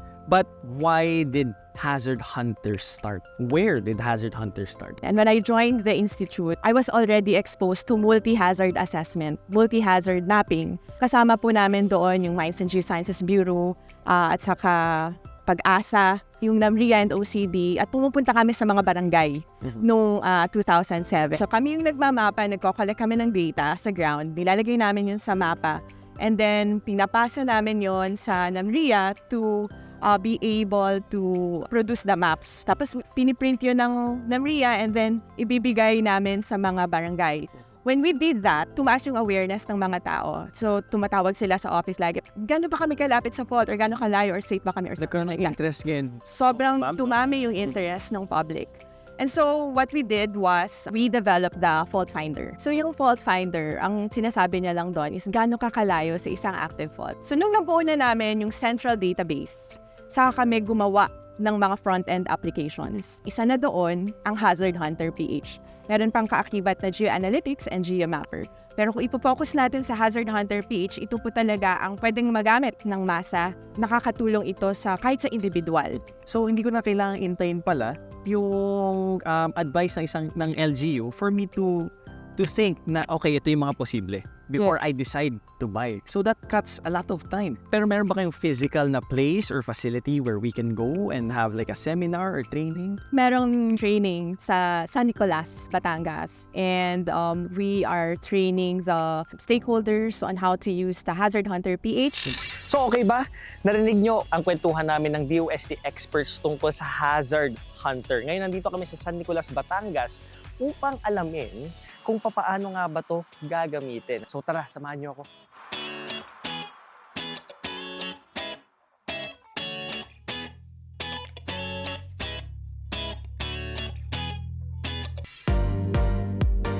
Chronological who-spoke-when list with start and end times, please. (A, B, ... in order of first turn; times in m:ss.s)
0:00.3-0:05.0 A
0:05.0-0:45.6 B
0:45.0-0:47.1 A
0:46.2-1:16.0 B
1:16.3-1:33.0 A
1:33.1-1:42.3 B
1:42.7-1:55.3 C